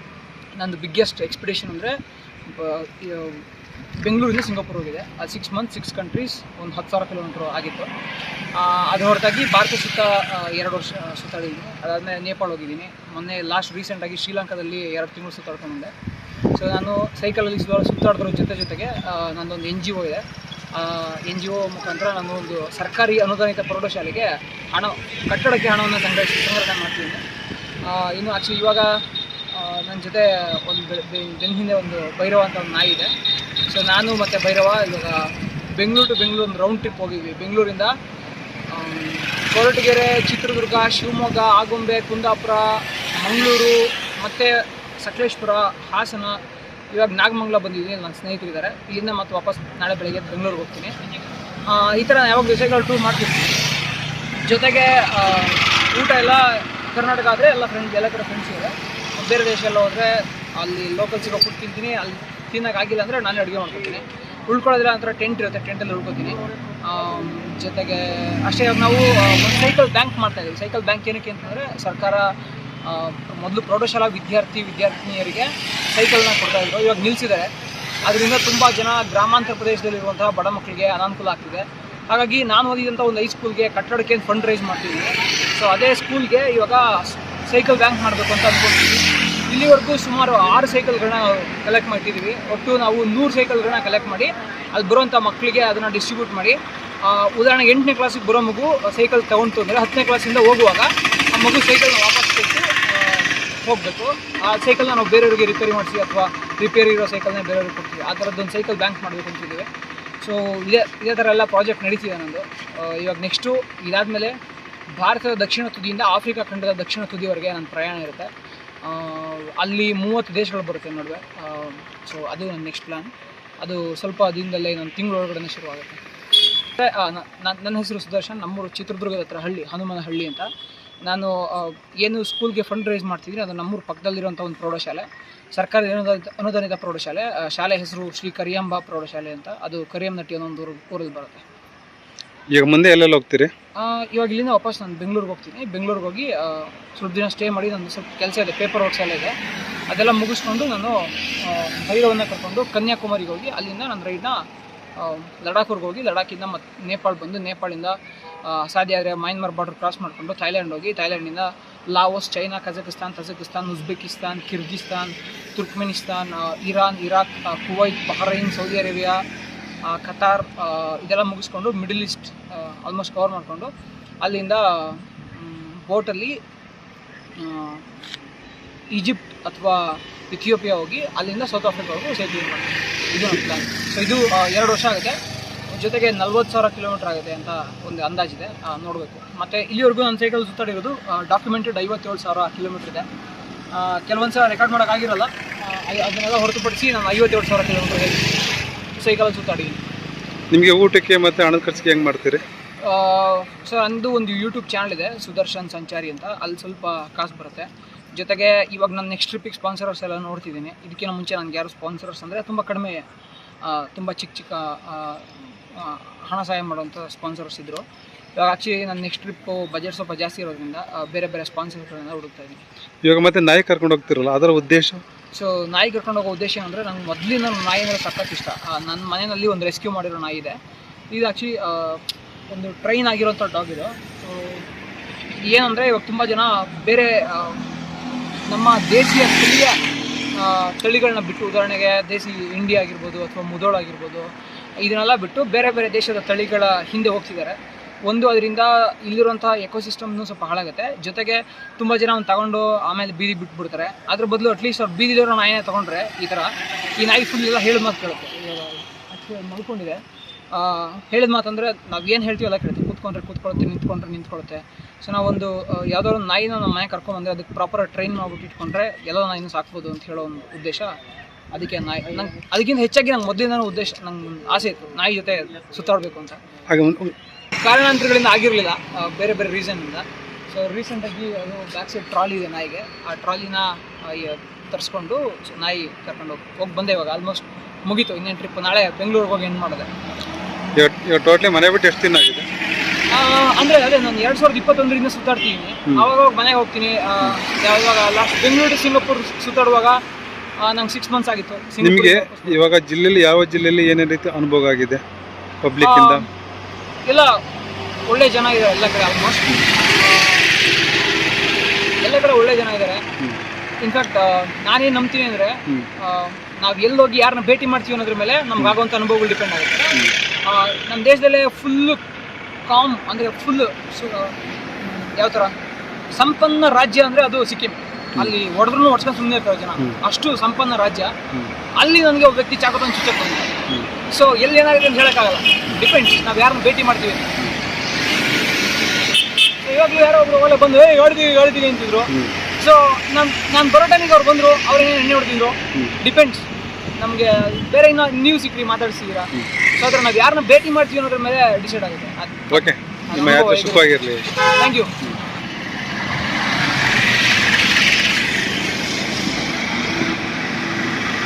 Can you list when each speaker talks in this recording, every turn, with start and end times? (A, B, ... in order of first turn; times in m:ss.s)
0:00.6-0:07.9 A
0:08.5-0:15.9 A
0:16.6-0:27.2 A
0:27.8-0:33.1 A
0:33.7-0:37.9 A
0:38.7-0:46.4 A
0:46.9-0:51.0 A
0:51.7-0:53.6 A
0:54.4-1:12.3 A
1:12.8-1:17.5 A
1:18.0-1:49.7 A
1:50.2-1:54.4 A
1:55.0-1:58.3 A
1:58.8-2:06.0 A
2:06.8-2:10.5 A
2:11.0-2:21.4 A
2:22.5-2:23.5 B
2:23.8-2:29.4 A
2:29.9-2:34.4 A
2:35.0-2:49.2 A
2:49.8-2:53.7 A
2:54.2-2:56.4 A
2:57.4-2:58.0 A
2:58.9-3:05.2 A
3:05.7-3:13.1 A
3:13.7-3:18.3 A
3:19.0-3:19.8 A
3:20.5-3:22.4 B
3:22.8-3:33.0 A
3:33.6-3:37.8 A
3:38.4-3:42.6 A
3:43.0-3:45.0 B
3:45.3-3:50.6 A
3:51.1-3:54.7 A
3:55.4-3:57.7 A
3:58.5-3:59.8 A
4:00.4-4:20.0 A
4:20.5-4:31.0 A
4:31.5-4:36.4 A
4:36.7-4:37.2 B
4:37.6-4:49.9 A
4:50.8-4:52.5 B
4:53.1-5:00.0 A
5:00.6-5:02.7 A
5:01.8-5:05.0 B
5:05.6-5:06.2 B
5:05.8-5:06.3 A
5:07.0-5:07.4 A
5:08.1-5:10.5 A
5:12.0-5:13.0 A
5:13.8-5:22.0 A
5:22.7-5:25.6 A
5:26.1-5:31.2 A
5:31.8-5:33.5 A
5:34.1-5:37.4 A
5:39.6-5:46.5 A
5:47.0-5:53.9 A
5:52.5-5:54.3 B
5:54.4-5:54.9 A